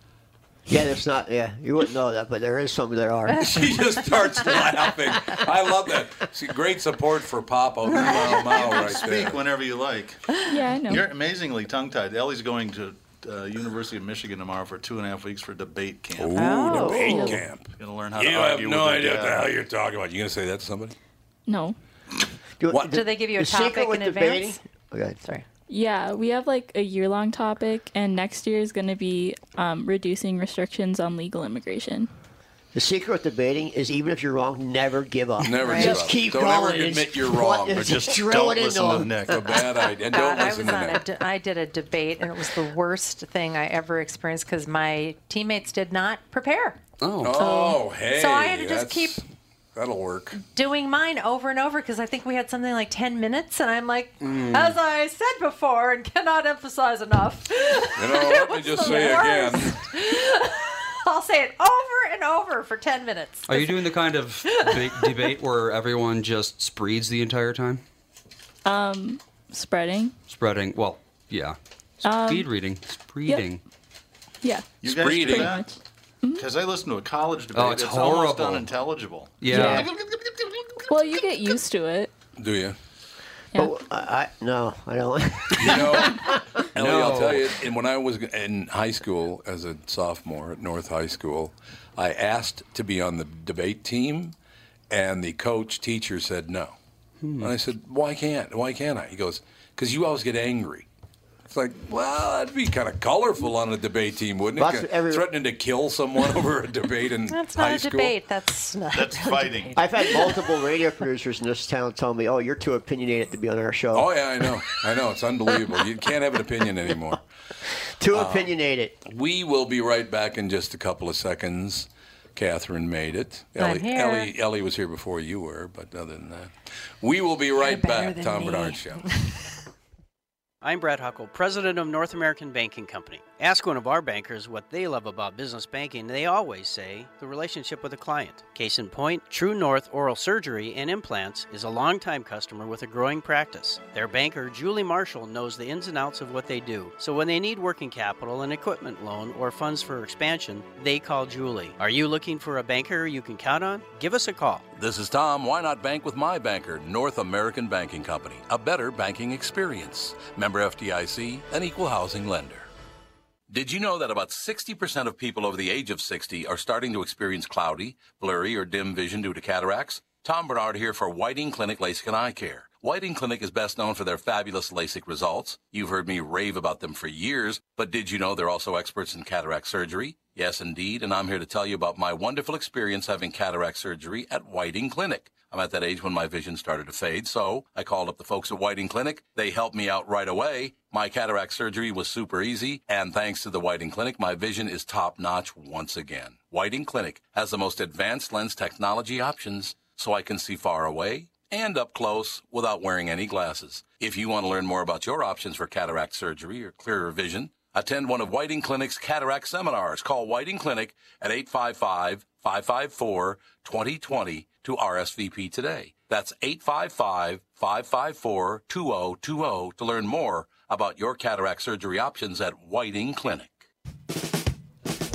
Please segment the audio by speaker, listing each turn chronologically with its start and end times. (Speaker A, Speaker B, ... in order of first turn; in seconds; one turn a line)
Speaker A: 0.7-3.7
Speaker B: 3.4-9.4
Speaker C: 8.0-8.3
Speaker D: 8.1-10.3
Speaker E: 10.5-11.1
Speaker D: 10.9-17.1
Speaker B: 16.1-20.9
Speaker C: 16.4-17.4
Speaker D: 17.8-19.5
Speaker E: 21.5-21.8
Speaker A: 22.6-25.2
Speaker B: 22.7-23.0
Speaker C: 22.9-24.6
Speaker E: 25.7-32.1
Speaker A: 32.7-39.3
Speaker B: 35.4-38.1
Speaker C: 35.6-36.1
Speaker D: 37.8-39.6
Speaker B: 39.3-41.0
Speaker C: 40.0-46.8
Speaker F: 47.0-47.5
Speaker B: 47.2-49.2
Speaker C: 47.4-49.2
Speaker B: 49.7-50.4
Speaker C: 50.4-63.9
Speaker F: 54.2-54.8
Speaker B: 58.0-59.8
Speaker F: 63.5-67.8
Speaker C: 64.4-65.3
Speaker E: 68.6-70.2
Speaker F: 70.3-73.6
Speaker E: 72.0-72.5
Speaker E: 74.4-76.5
Speaker D: 74.8-75.7
Speaker B: 74.8-75.6
Speaker D: 76.3-80.6
Speaker F: 77.5-78.7
Speaker F: 79.4-79.9
Speaker A: 79.5-79.8
Speaker E: 80.9-82.1
Speaker B: 82.4-82.8
Speaker A: 83.5-86.4
Speaker B: 85.5-94.3
Speaker F: 86.8-87.5
Speaker B: 94.9-96.7
Speaker F: 97.2-97.5
Speaker B: 97.4-100.9
Speaker B: 101.5-108.1
Speaker A: 104.5-105.3
Speaker C: 107.3-110.5
Speaker D: 108.9-109.8
Speaker A: 109.8-114.1
Speaker B: 113.9-117.2
Speaker A: 118.0-119.0
Speaker B: 118.1-118.5
Speaker B: 119.0-129.1
Speaker C: 123.6-124.3
Speaker C: 127.5-129.3
Speaker G: 130.6-154.7
Speaker B: 154.8-162.7
Speaker B: 163.5-223.6